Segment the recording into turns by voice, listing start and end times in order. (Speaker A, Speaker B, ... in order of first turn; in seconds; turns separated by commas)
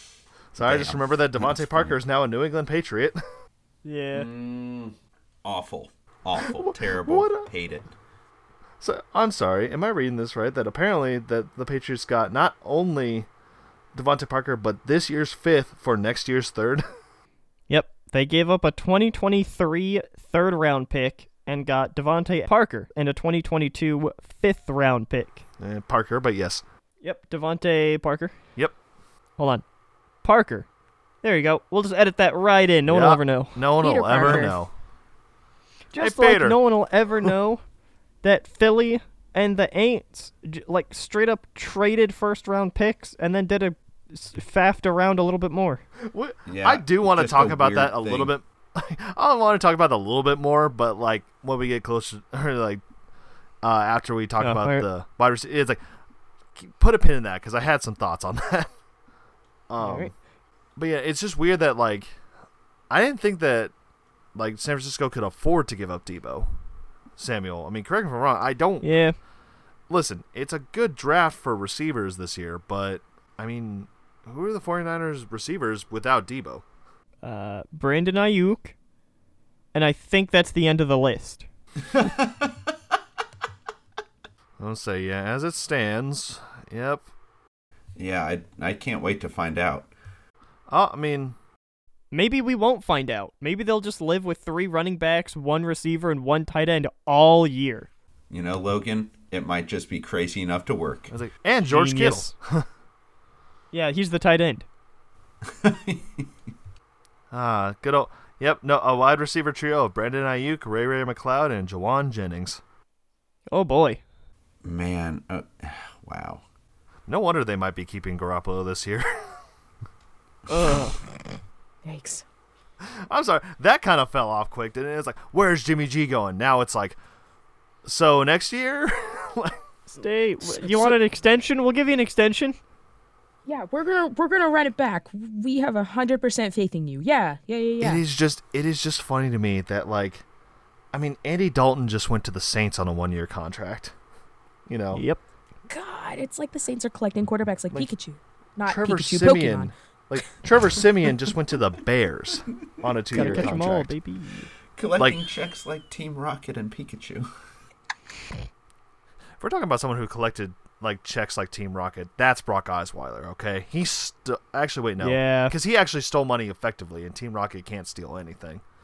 Speaker A: 0.5-3.2, Speaker B: 0.6-2.0, Speaker C: 3.8-4.3, Speaker B: 4.1-7.9, Speaker A: 6.4-7.5, Speaker A: 8.8-13.3, Speaker A: 13.9-16.8, Speaker C: 17.7-25.4, Speaker A: 25.6-26.6, Speaker C: 27.0-28.3, Speaker C: 29.4-29.6, Speaker C: 30.2-30.6, Speaker C: 31.2-33.6, Speaker A: 32.9-34.7, Speaker D: 33.8-34.6, Speaker C: 35.9-37.6, Speaker A: 36.0-36.6, Speaker C: 38.2-45.8, Speaker A: 46.0-52.8, Speaker B: 46.5-48.3, Speaker A: 53.6-55.8, Speaker C: 54.4-54.9, Speaker A: 56.5-58.7, Speaker A: 59.7-60.1, Speaker D: 59.8-60.1, Speaker A: 60.8-62.1, Speaker A: 62.9-63.7, Speaker A: 64.3-66.5, Speaker A: 67.2-68.9, Speaker C: 68.8-69.2, Speaker A: 69.9-76.6, Speaker C: 77.2-78.7, Speaker C: 79.7-81.4, Speaker A: 84.6-87.0, Speaker B: 88.0-89.9, Speaker A: 90.7-91.3, Speaker C: 92.1-97.9, Speaker B: 98.3-101.1, Speaker A: 101.1-102.7, Speaker C: 101.6-102.3, Speaker C: 103.7-104.6, Speaker B: 105.4-106.3, Speaker A: 107.3-112.6, Speaker C: 113.5-114.0, Speaker B: 114.6-116.4, Speaker A: 117.1-119.1, Speaker C: 120.5-121.0, Speaker D: 121.8-122.2, Speaker A: 122.8-127.0, Speaker A: 127.8-129.6, Speaker C: 129.9-132.6, Speaker A: 130.5-130.9, Speaker D: 133.5-138.0, Speaker A: 137.8-140.2, Speaker A: 140.9-143.9, Speaker A: 144.7-145.0, Speaker C: 144.9-145.2, Speaker D: 145.7-149.7, Speaker A: 148.7-153.9, Speaker C: 153.1-154.5, Speaker B: 153.2-153.6, Speaker B: 154.8-157.3, Speaker A: 159.4-168.6, Speaker C: 165.0-165.5